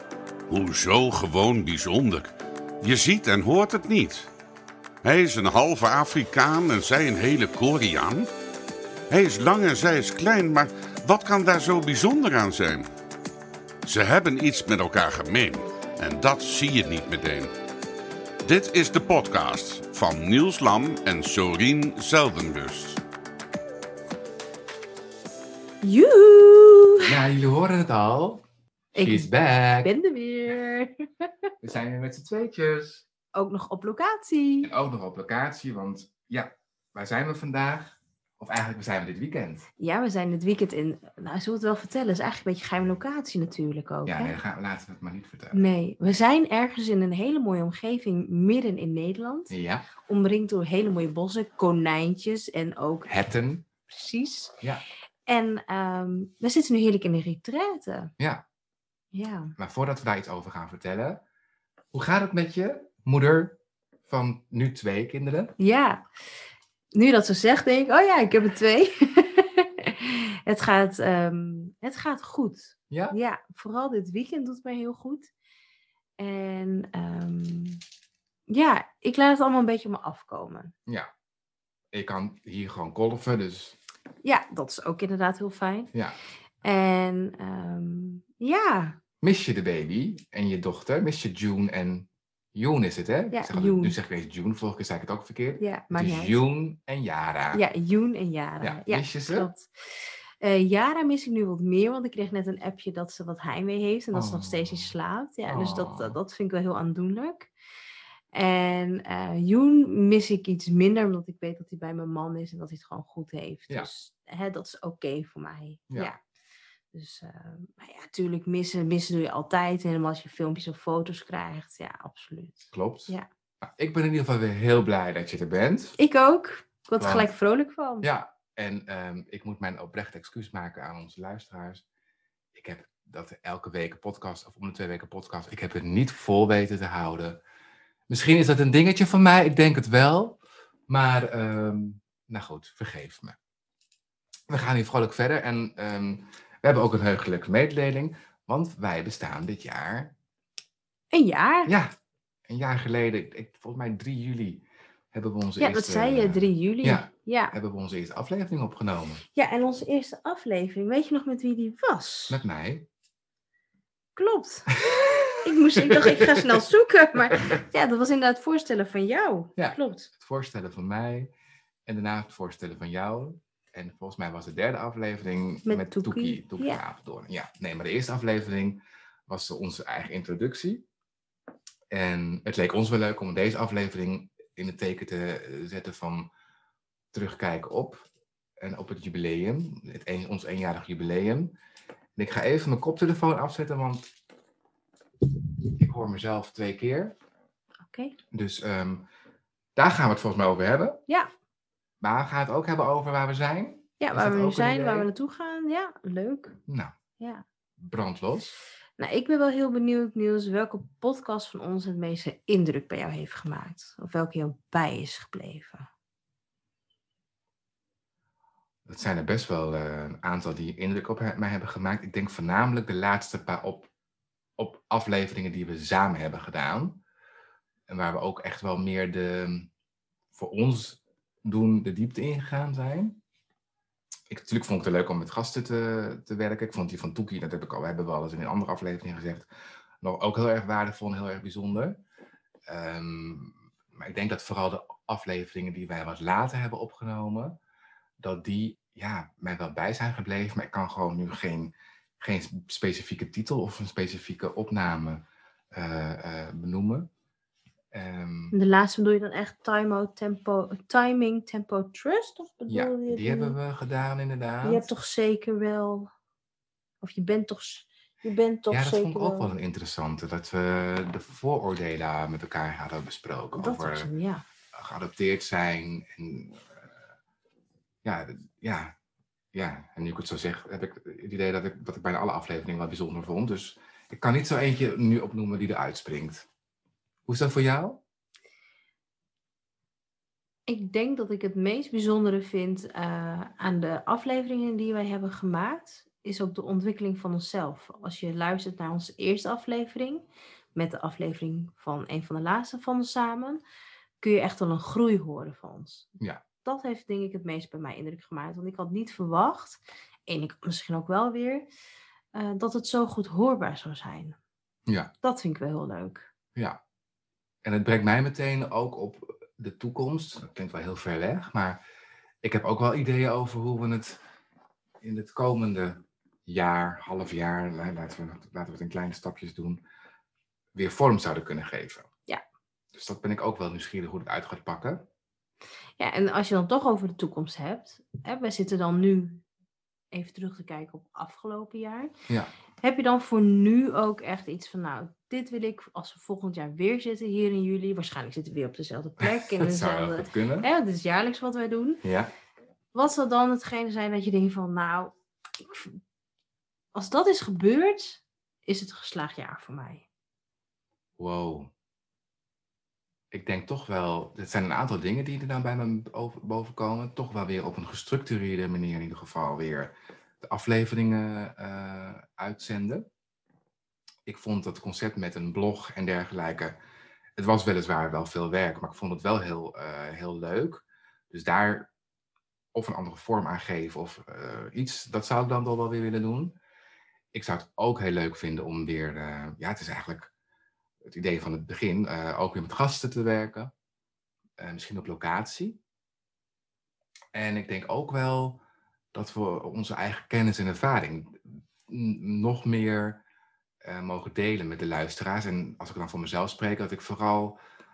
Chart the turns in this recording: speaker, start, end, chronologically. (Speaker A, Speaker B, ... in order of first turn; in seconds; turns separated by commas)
Speaker A: 0.5-4.3, Speaker A: 5.0-8.3, Speaker A: 9.1-12.9, Speaker A: 13.8-17.5, Speaker A: 18.4-23.0, Speaker B: 25.8-27.2, Speaker C: 27.0-28.4, Speaker B: 28.9-29.3, Speaker C: 28.9-29.9, Speaker B: 29.8-31.3, Speaker C: 31.6-33.0, Speaker B: 33.3-34.7, Speaker C: 34.6-39.7, Speaker B: 39.8-44.4, Speaker C: 44.0-45.6, Speaker B: 45.5-49.5, Speaker C: 49.5-49.9, Speaker B: 50.0-53.1, Speaker C: 53.0-53.6, Speaker B: 53.9-54.5, Speaker B: 55.3-58.1, Speaker C: 58.2-58.4, Speaker B: 59.1-59.5, Speaker C: 59.6-61.2, Speaker C: 61.9-65.5, Speaker B: 65.6-66.0, Speaker B: 66.9-75.3, Speaker C: 72.9-73.2, Speaker B: 76.2-77.8, Speaker B: 78.5-80.7, Speaker C: 81.9-83.8, Speaker B: 84.2-85.9, Speaker B: 86.6-89.0, Speaker C: 89.2-97.6, Speaker B: 93.3-94.0, Speaker B: 95.6-96.4, Speaker B: 97.5-107.5, Speaker C: 98.6-99.5, Speaker C: 104.1-104.9, Speaker C: 105.5-106.2, Speaker B: 108.3-116.2, Speaker B: 116.9-123.2, Speaker C: 122.7-126.0, Speaker B: 126.0-128.1, Speaker C: 127.0-127.3, Speaker C: 128.0-131.8, Speaker C: 132.5-137.4, Speaker C: 138.1-143.3, Speaker C: 144.5-150.1, Speaker B: 151.1-151.7, Speaker C: 151.7-151.9, Speaker C: 152.5-159.2, Speaker B: 155.6-157.5, Speaker B: 159.3-162.4, Speaker C: 162.3-162.9, Speaker B: 164.2-164.7, Speaker C: 164.8-166.6, Speaker B: 165.4-170.1, Speaker C: 169.6-171.3, Speaker C: 171.8-180.8, Speaker B: 175.7-176.8, Speaker C: 181.9-186.3, Speaker C: 187.1-188.1, Speaker C: 188.6-191.5, Speaker C: 192.2-194.1, Speaker C: 195.6-197.1, Speaker B: 197.9-198.1, Speaker C: 198.3-199.0, Speaker C: 199.8-201.0, Speaker C: 202.0-205.1, Speaker B: 204.0-206.6, Speaker C: 206.7-206.9, Speaker B: 207.2-207.4, Speaker C: 207.8-208.5, Speaker B: 209.0-215.9, Speaker C: 218.8-223.9, Speaker C: 224.6-227.0, Speaker C: 227.9-229.7, Speaker C: 230.3-233.2, Speaker C: 234.3-239.4, Speaker C: 240.0-242.0, Speaker C: 242.7-247.6, Speaker C: 248.2-257.1, Speaker C: 257.9-258.5, Speaker B: 258.5-263.6, Speaker C: 262.7-264.8, Speaker B: 264.6-266.1, Speaker B: 267.0-269.5, Speaker C: 268.7-274.1, Speaker B: 273.6-274.4, Speaker C: 274.7-276.9, Speaker C: 278.0-278.9, Speaker C: 279.5-286.4, Speaker C: 287.3-288.0, Speaker B: 290.7-303.6, Speaker B: 304.2-306.1, Speaker B: 306.6-311.7, Speaker B: 312.3-314.4, Speaker B: 315.2-316.3, Speaker C: 317.6-321.8, Speaker C: 322.4-324.2, Speaker C: 325.0-329.8, Speaker C: 330.7-332.1, Speaker C: 332.9-335.1, Speaker B: 336.0-339.4, Speaker B: 340.1-342.1, Speaker B: 342.8-352.0, Speaker C: 349.2-350.7, Speaker C: 352.0-352.3, Speaker B: 352.9-356.0, Speaker B: 356.9-360.0, Speaker C: 361.2-361.7, Speaker C: 363.3-373.1, Speaker C: 374.2-376.7, Speaker C: 377.4-381.9, Speaker C: 382.7-386.6, Speaker C: 387.3-390.3, Speaker C: 391.1-393.7, Speaker C: 394.6-395.8, Speaker C: 397.3-398.6, Speaker C: 399.1-403.2, Speaker C: 403.8-407.6